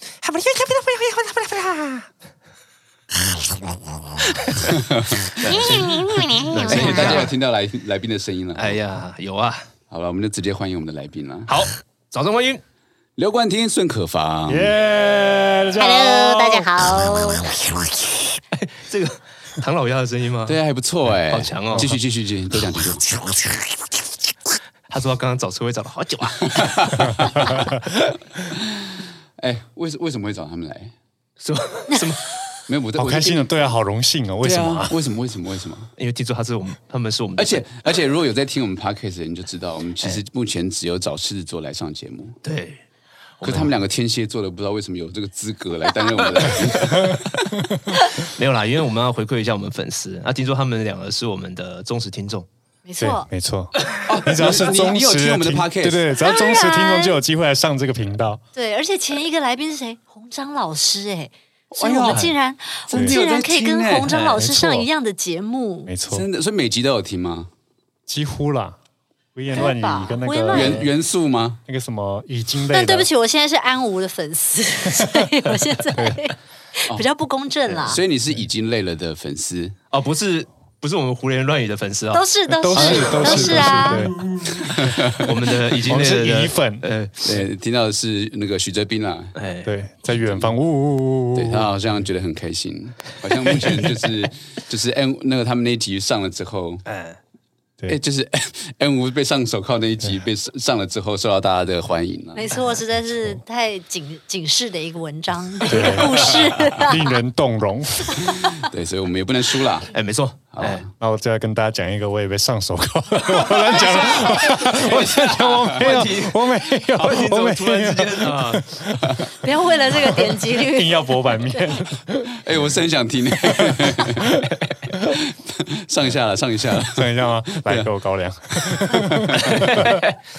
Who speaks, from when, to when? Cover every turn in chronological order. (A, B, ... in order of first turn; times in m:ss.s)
0:00.2-0:02.1 A
0:04.4-0:04.8 A
0:04.6-0:08.8 B
0:05.3-0:07.3 A
0:05.8-0:07.2 C
0:08.6-0:09.7 A
0:09.9-0:11.6 B
0:11.5-0:12.6 A
0:13.2-0:14.8 B
0:14.5-0:16.8 D
0:15.8-0:17.6 C
0:18.6-0:20.6 A
0:20.5-0:23.1 B
0:21.3-0:21.9 A
0:24.9-0:27.6 A
0:26.6-0:27.5 B
0:27.4-0:27.8 D
0:28.5-0:30.9 B
0:31.4-0:32.3 A
0:32.7-0:33.5 B
0:33.0-0:35.0 D
0:34.4-0:35.9 B
0:36.0-0:37.6 A
0:37.4-0:42.4 B
0:42.4-0:42.8 A
0:43.4-0:43.7 A
0:43.4-0:47.6 B
0:46.5-0:47.1 A
0:47.0-0:47.8 D
0:48.2-0:52.5 A
0:52.8-0:53.3 C
0:53.0-0:58.4 D
0:53.9-0:54.7 A
0:54.1-0:56.2 B
0:56.2-0:57.2 C
0:58.6-1:05.9 C
1:01.7-1:02.3 B
1:02.1-1:02.3 A
1:02.9-1:04.2 B
1:04.1-1:04.9 D
1:05.9-1:06.3 D
1:06.1-1:07.5 B
1:08.1-1:08.8 D
1:09.4-1:10.9 D
1:09.5-1:10.9 C
1:10.5-1:11.6 B
1:11.7-1:13.1 D
1:12.7-1:18.0 C
1:16.0-1:16.2 D
1:17.7-1:17.9 A
1:17.9-1:19.8 B
1:19.9-1:27.4 A
1:22.1-1:24.1 C
1:22.5-1:24.2 D
1:24.5-1:25.4 B
1:25.8-1:26.9 D
1:27.2-1:29.4 B
1:29.4-1:29.7 A
1:29.6-1:31.7 D
1:30.1-1:30.5 B
1:31.3-1:36.9 B
1:33.4-1:34.1 D
1:36.9-1:37.2 A
1:37.9-1:42.5 B
1:42.4-1:47.1 C
1:43.0-1:43.4 D
1:45.6-1:48.4 D
1:46.3-1:46.7 B
1:48.1-1:48.4 C
1:48.2-1:49.9 B
1:49.9-1:50.9 A
1:50.5-1:50.9 B
1:51.0-1:59.3 D
1:53.4-1:56.1 B
1:54.2-1:55.0 A
1:55.7-1:58.7 A
1:59.4-2:01.8 C
1:59.9-2:02.6 D
2:02.4-2:07.9 B
2:03.4-2:05.0 D
2:06.8-2:10.0 D
2:08.6-2:09.9 B
2:09.3-2:10.2 A